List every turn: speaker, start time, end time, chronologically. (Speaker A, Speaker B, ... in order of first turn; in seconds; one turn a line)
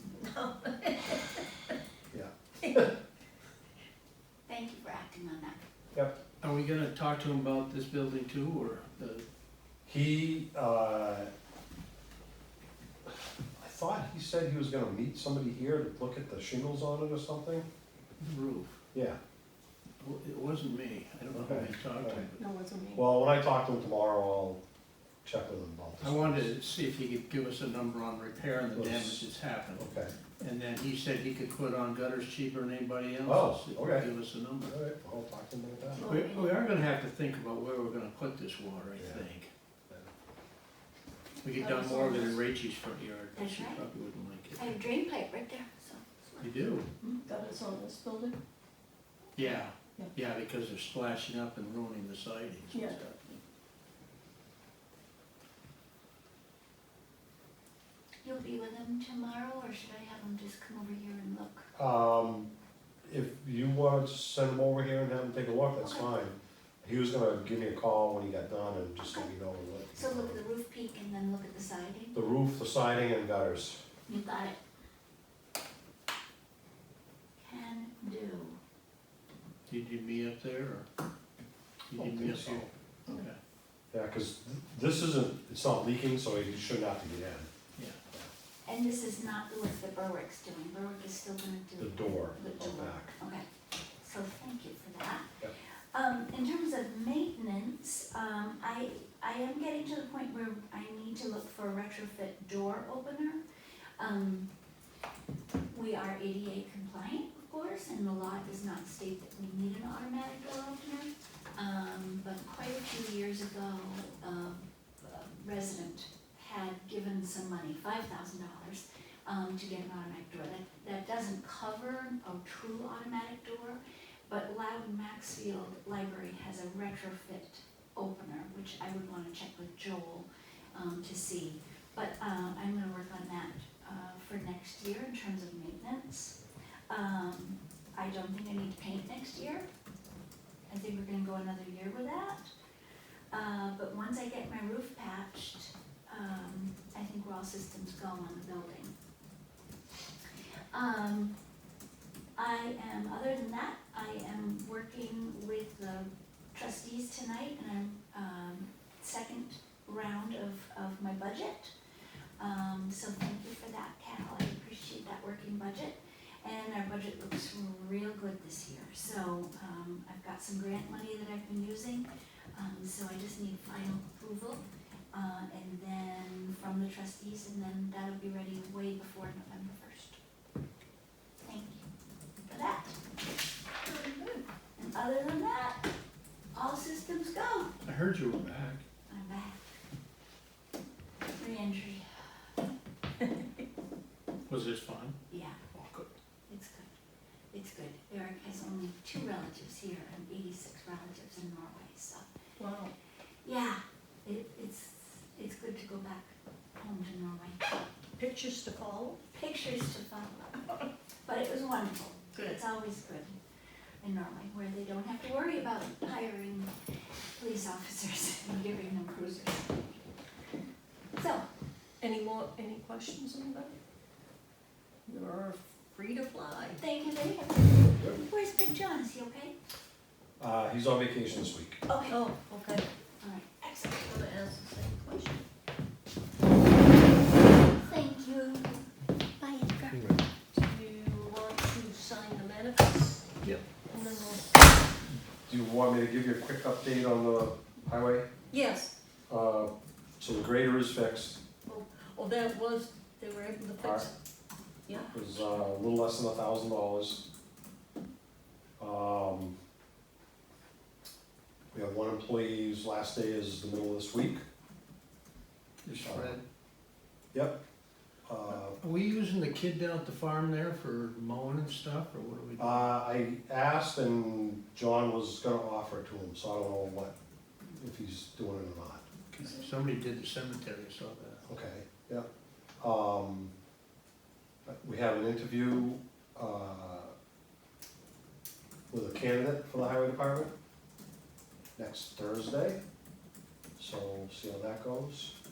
Speaker A: 0.2-1.5
Speaker B: 2.1-3.0
Speaker C: 4.5-5.6
Speaker D: 6.4-9.2
Speaker B: 9.9-11.3
Speaker B: 13.6-17.6
Speaker D: 18.2-18.8
Speaker B: 18.9-19.2
Speaker D: 20.0-22.5
Speaker B: 21.3-22.3
Speaker A: 22.4-23.1
Speaker B: 22.9-24.6
Speaker B: 25.2-26.5
Speaker D: 26.0-34.8
Speaker B: 28.8-30.1
Speaker B: 33.2-34.1
Speaker B: 34.6-36.1
Speaker C: 35.9-36.6
Speaker D: 36.0-39.5
Speaker B: 39.0-39.3
Speaker D: 41.4-44.8
Speaker C: 41.5-42.4
Speaker C: 43.4-43.8
Speaker C: 44.6-47.2
Speaker D: 46.4-46.9
Speaker A: 47.3-48.4
Speaker D: 49.4-53.0
Speaker A: 52.7-53.4
Speaker C: 58.2-61.7
Speaker B: 61.8-62.5
Speaker B: 63.0-70.4
Speaker C: 65.8-66.2
Speaker C: 69.9-72.1
Speaker B: 72.1-73.8
Speaker C: 74.1-74.6
Speaker C: 77.4-78.6
Speaker D: 79.7-80.9
Speaker D: 81.9-83.4
Speaker B: 82.0-82.7
Speaker B: 83.9-87.5
Speaker C: 88.7-93.5
Speaker B: 91.8-93.1
Speaker C: 94.0-95.3
Speaker C: 95.9-103.4
Speaker C: 104.0-104.5
Speaker C: 105.7-136.4
Speaker C: 136.9-139.7
Speaker C: 140.7-142.5
Speaker C: 143.3-148.9
Speaker C: 150.7-151.3
Speaker C: 152.4-161.7
Speaker C: 162.4-180.2
Speaker C: 181.4-181.9
Speaker C: 182.5-183.0
Speaker C: 184.8-185.8
Speaker C: 186.5-187.7
Speaker D: 187.8-188.8
Speaker C: 189.1-189.8
Speaker C: 191.4-192.0
Speaker D: 194.5-195.2
Speaker C: 195.3-195.6
Speaker D: 195.7-196.1
Speaker C: 196.5-196.9
Speaker C: 197.5-202.2
Speaker A: 202.6-202.9
Speaker C: 203.4-207.8
Speaker A: 208.2-209.2
Speaker C: 209.3-213.3
Speaker A: 212.3-212.6
Speaker C: 214.0-216.7
Speaker C: 217.4-220.0
Speaker C: 221.2-221.5
Speaker A: 222.0-223.8
Speaker A: 225.1-226.8
Speaker C: 226.8-229.5
Speaker B: 230.4-231.8
Speaker C: 231.9-232.2
Speaker A: 232.1-232.9
Speaker C: 233.2-234.2
Speaker A: 234.1-235.4
Speaker C: 237.8-238.8
Speaker C: 239.4-240.0
Speaker B: 239.9-240.2
Speaker A: 240.5-244.6
Speaker B: 245.4-248.3
Speaker A: 248.5-248.9
Speaker B: 249.3-251.4
Speaker A: 251.7-254.1
Speaker B: 253.8-254.1
Speaker B: 255.1-257.3
Speaker B: 258.8-259.6
Speaker B: 261.7-264.4
Speaker D: 265.8-266.4
Speaker B: 265.9-266.4
Speaker B: 267.3-267.6
Speaker B: 268.3-268.8
Speaker D: 268.5-272.9
Speaker B: 272.6-279.0
Speaker D: 279.3-281.4
Speaker B: 281.5-282.3
Speaker B: 282.8-283.5
Speaker B: 284.7-287.1
Speaker B: 288.9-290.5
Speaker B: 291.8-292.8
Speaker B: 293.8-295.4